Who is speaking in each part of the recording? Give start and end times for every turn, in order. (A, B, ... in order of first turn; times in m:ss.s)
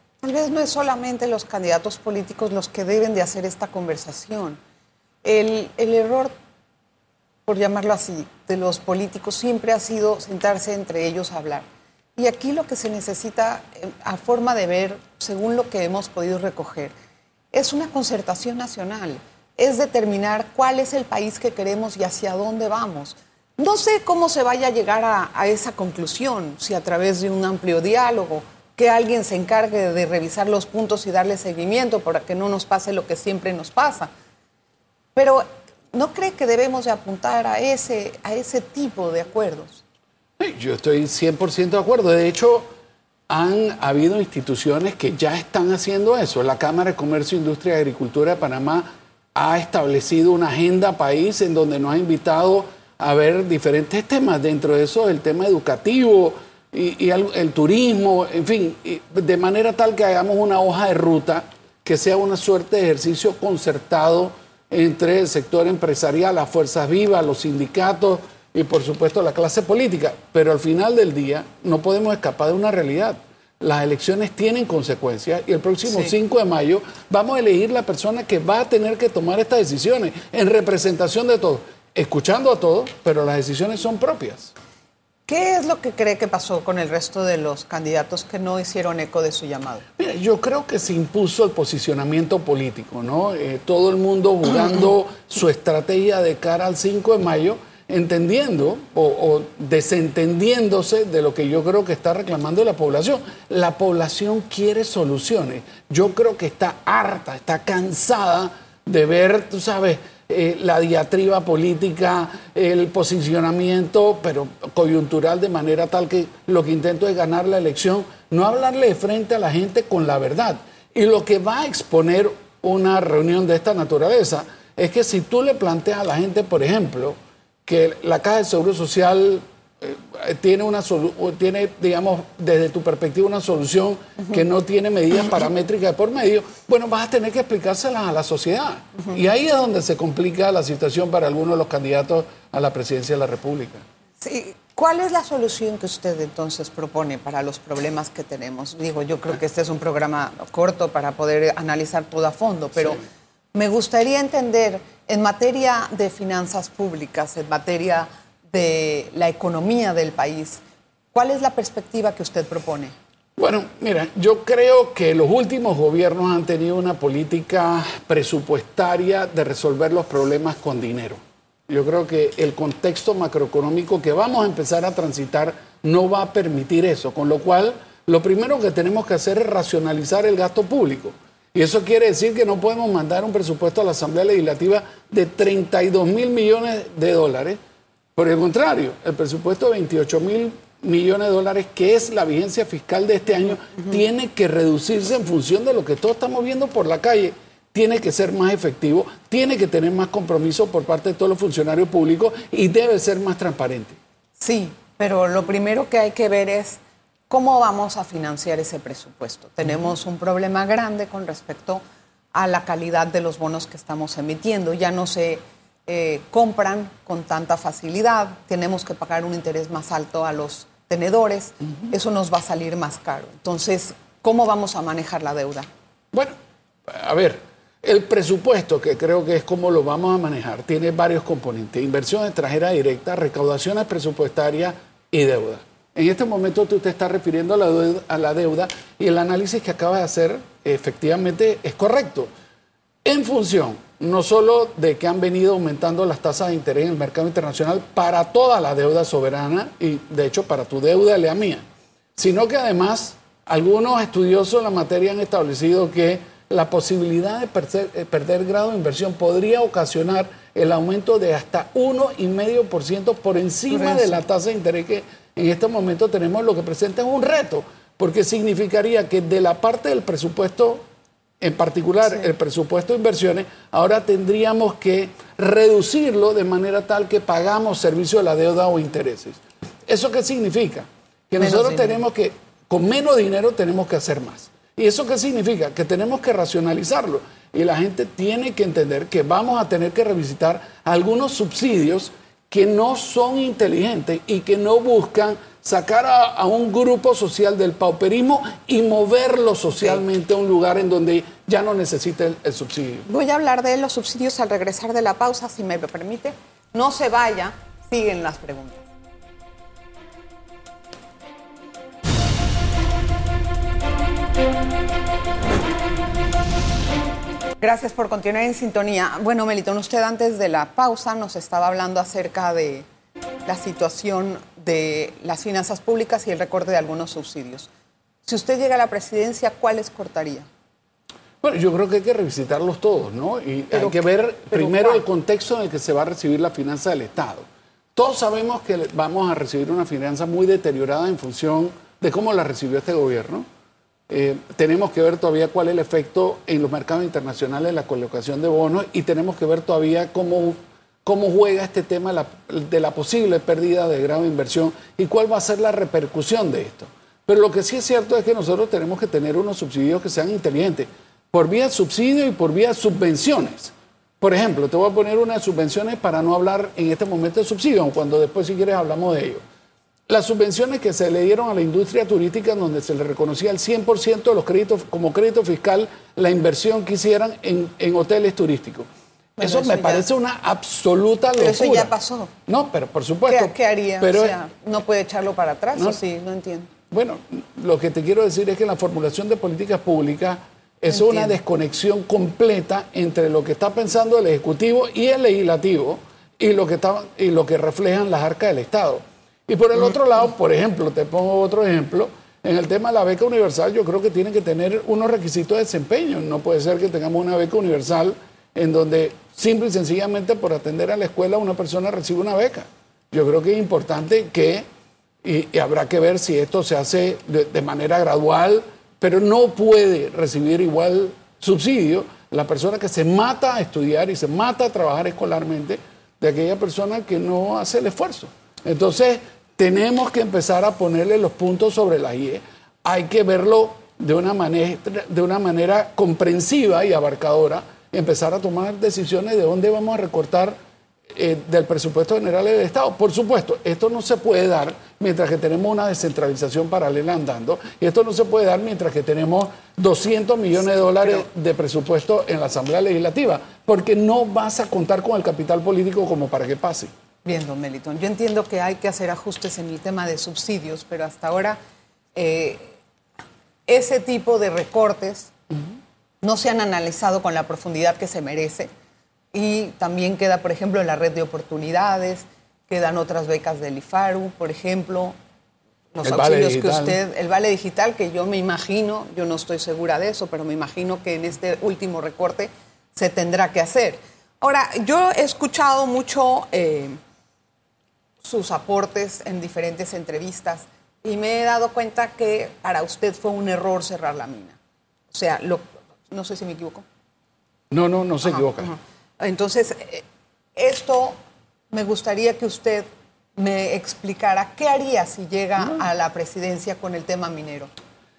0:00.2-0:04.6 A
0:05.2-0:06.3 A
0:07.5-0:16.9 A
0:17.5-0:34.1 A
0:35.2-0:39.8 A
0:40.4-0:42.7 B
0:43.3-1:24.5 B
1:25.3-1:29.8 A
1:30.0-2:23.8 B
2:24.2-2:33.0 A
2:33.5-2:40.6 A
2:41.1-2:43.0 A
2:43.4-3:07.6 B
3:08.2-3:24.0 B
3:24.4-3:31.8 A
3:32.3-3:45.7 A
3:46.9-4:02.3 B
4:03.0-4:11.6 B
4:12.2-4:30.8 B
4:23.7-4:24.2 A
4:31.4-5:03.1 B
4:41.4-4:42.0 A
5:03.1-5:08.9 A
5:17.6-5:22.9 A
5:23.5-5:27.7 A
5:28.2-5:30.5 A
5:31.4-5:43.5 B
5:33.7-5:35.0 A
5:44.1-6:09.4 B
6:10.1-6:21.9 B
6:19.4-6:20.0 A
6:21.4-6:22.3 A
6:22.5-6:24.4 B
6:23.3-6:26.7 A
6:26.9-6:54.7 B
6:30.9-6:31.4 A
6:55.2-7:20.6 B
7:21.1-7:36.9 B
7:37.2-7:41.6 A
7:42.2-7:42.8 A
7:43.7-7:45.3 A
7:46.2-7:48.7 A
7:49.3-7:55.1 A
7:55.9-8:07.0 A
7:56.0-7:57.0 B
8:08.2-8:14.6 A
8:15.1-8:16.8 A
8:17.7-8:18.7 B
8:18.2-8:20.0 A
8:20.6-8:21.2 A
8:21.7-8:27.7 A